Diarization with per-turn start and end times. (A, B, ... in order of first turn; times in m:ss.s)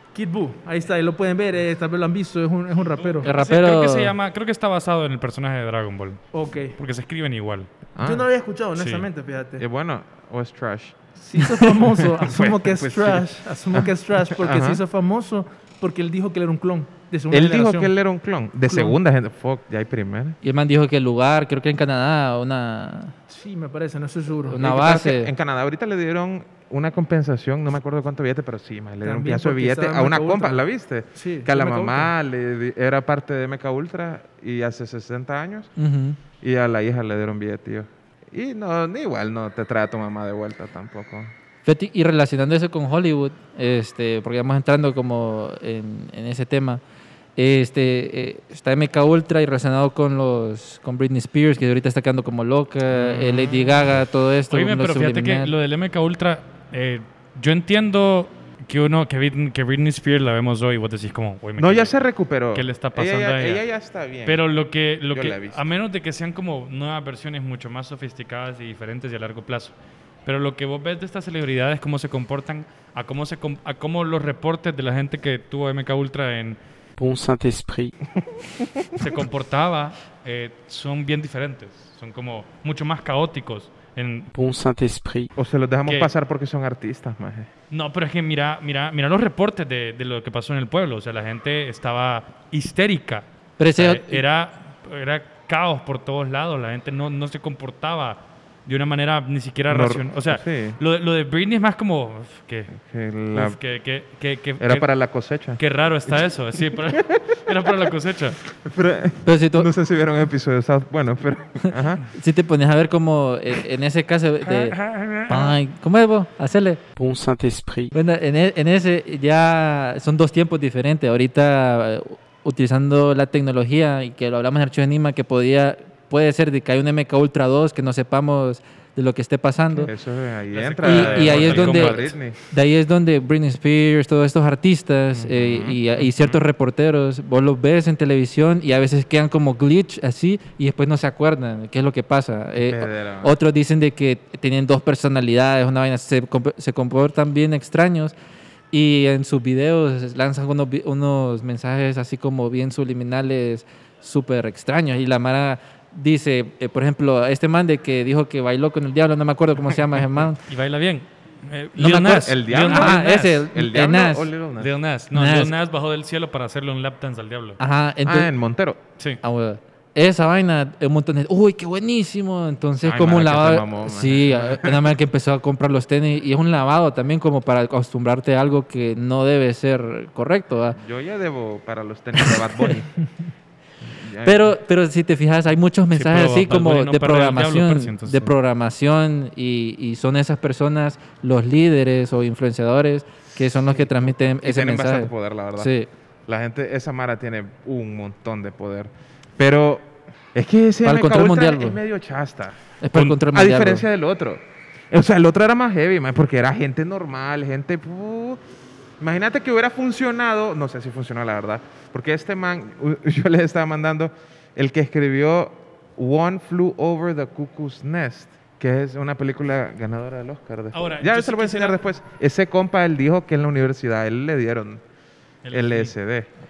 0:00.1-0:03.4 A
0:03.0-0:06.2 B
0:03.2-0:04.1 C
0:06.3-0:06.8 A
0:06.8-0:07.7 B
0:08.0-0:08.3 D
0:08.0-0:09.6 A
0:08.8-0:09.1 B
0:09.6-0:11.0 D
0:11.2-0:17.9 A
0:12.2-0:14.8 D
0:17.3-0:20.4 D
0:18.7-0:19.0 A
0:20.4-0:23.2 C
0:23.3-0:24.6 A
0:24.4-0:25.3 C
0:24.6-0:35.7 D
0:29.0-0:30.6 A
0:31.2-0:32.1 A
0:35.8-0:36.2 C
0:36.4-0:41.3 D
0:41.6-0:46.8 C
0:47.4-0:55.5 C
0:53.0-0:53.6 D
0:54.5-1:01.9 B
1:01.6-1:04.5 D
1:02.5-1:03.6 B
1:04.3-1:09.7 B
1:05.1-1:05.6 D
1:10.2-1:16.6 B
1:17.0-1:17.9 E
1:19.0-1:24.3 B
1:24.3-1:25.3 E
1:25.4-1:27.5 D
1:25.9-1:26.1 B
1:27.7-1:33.3 B
1:33.6-1:34.2 C
1:33.8-1:42.8 B
1:39.7-1:40.8 D
1:42.8-1:43.6 D
1:43.3-1:44.9 B
1:44.6-1:47.9 D
1:45.6-1:48.4 B
1:48.5-1:52.0 D
1:49.2-1:49.7 C
1:52.1-1:56.8 C
1:54.5-1:55.6 B
1:57.0-1:57.9 E
1:57.9-2:09.9 C
2:09.8-2:12.4 D
2:10.5-2:12.1 B
2:10.8-2:28.2 C
2:15.1-2:16.4 D
2:22.6-2:23.3 D
2:28.7-2:40.4 C
2:40.5-2:43.5 B
2:41.8-2:44.3 C
2:41.8-2:44.7 D
2:44.6-2:47.6 B
2:45.1-2:45.5 C
2:47.6-2:48.3 C
2:48.0-2:48.8 D
2:49.2-3:00.8 C
2:52.8-2:54.9 D
3:00.8-3:03.0 D
3:03.8-3:04.6 D
3:04.2-3:15.9 C
3:05.9-3:08.3 B
3:13.6-3:15.7 D
3:16.3-3:22.6 D
3:20.8-3:21.8 C
3:22.8-3:23.8 C
3:22.9-3:23.2 B
3:23.3-3:28.4 D
3:29.0-3:44.8 D
3:40.7-3:41.8 B
3:45.4-3:45.9 B
3:45.5-3:46.3 D